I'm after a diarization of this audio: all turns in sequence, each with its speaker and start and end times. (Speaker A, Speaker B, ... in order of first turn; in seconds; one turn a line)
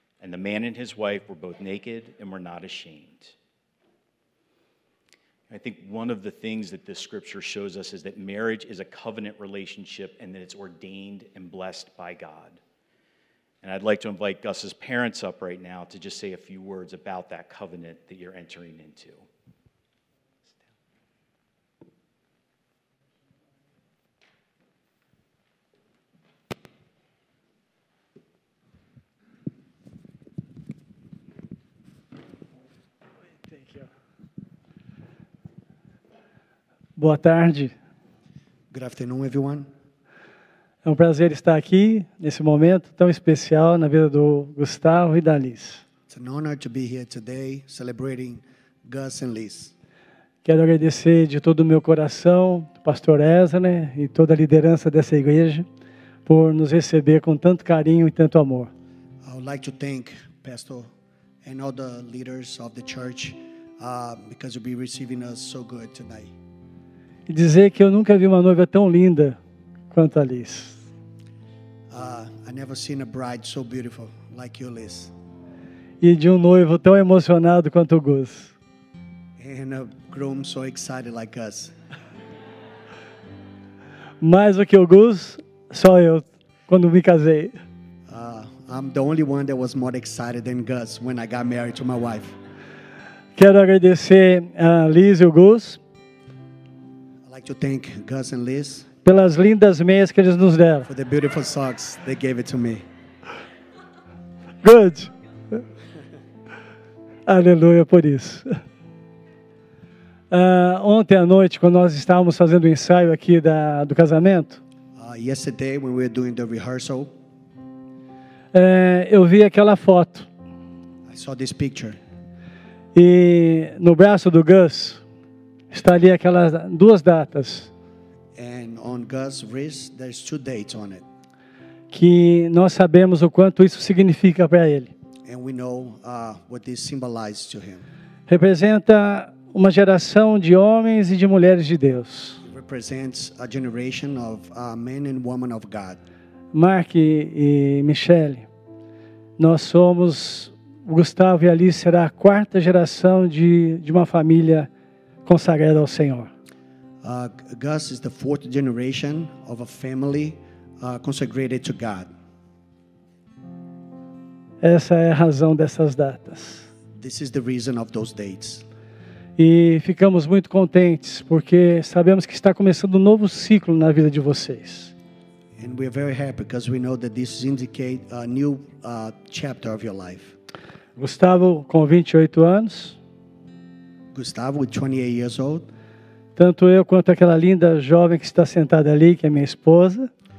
Speaker A: 0.2-3.4
Speaker A: 5.5-12.6
Speaker A: 13.6-19.2
Speaker B: 33.5-33.8
Speaker B: 37.0-37.7
Speaker C: 38.7-39.7
Speaker B: 40.8-45.8
Speaker C: 46.1-49.7
Speaker B: 50.5-55.7
Speaker B: 56.3-58.7
Speaker C: 59.2-60.9
Speaker C: 61.4-66.3
Speaker B: 67.3-69.4
Speaker B: 69.9-70.8
Speaker C: 71.9-75.1
Speaker B: 76.0-78.5
Speaker C: 79.4-81.8
Speaker B: 84.2-87.6
Speaker C: 88.1-92.4
Speaker B: 93.4-95.8
Speaker C: 97.2-98.9
Speaker B: 99.0-100.9
Speaker C: 100.9-102.8
Speaker B: 104.6-105.6
Speaker B: 107.3-108.6
Speaker B: 110.3-114.6
Speaker C: 115.0-117.2
Speaker B: 118.5-120.3
Speaker C: 121.1-122.0
Speaker B: 123.0-125.0
Speaker B: 125.7-127.7
Speaker C: 128.3-131.1
Speaker B: 131.9-134.9
Speaker C: 135.3-137.9
Speaker B: 138.3-142.4
Speaker C: 142.4-146.0
Speaker B: 146.5-148.5
Speaker B: 149.4-154.7
Speaker B: 155.3-156.3
Speaker C: 157.0-162.1
Speaker B: 164.6-166.7
Speaker C: 166.9-168.7
Speaker B: 169.4-174.9
Speaker C: 175.6-180.4
Speaker B: 181.0-183.0
Speaker C: 184.1-185.7
Speaker B: 186.4-190.1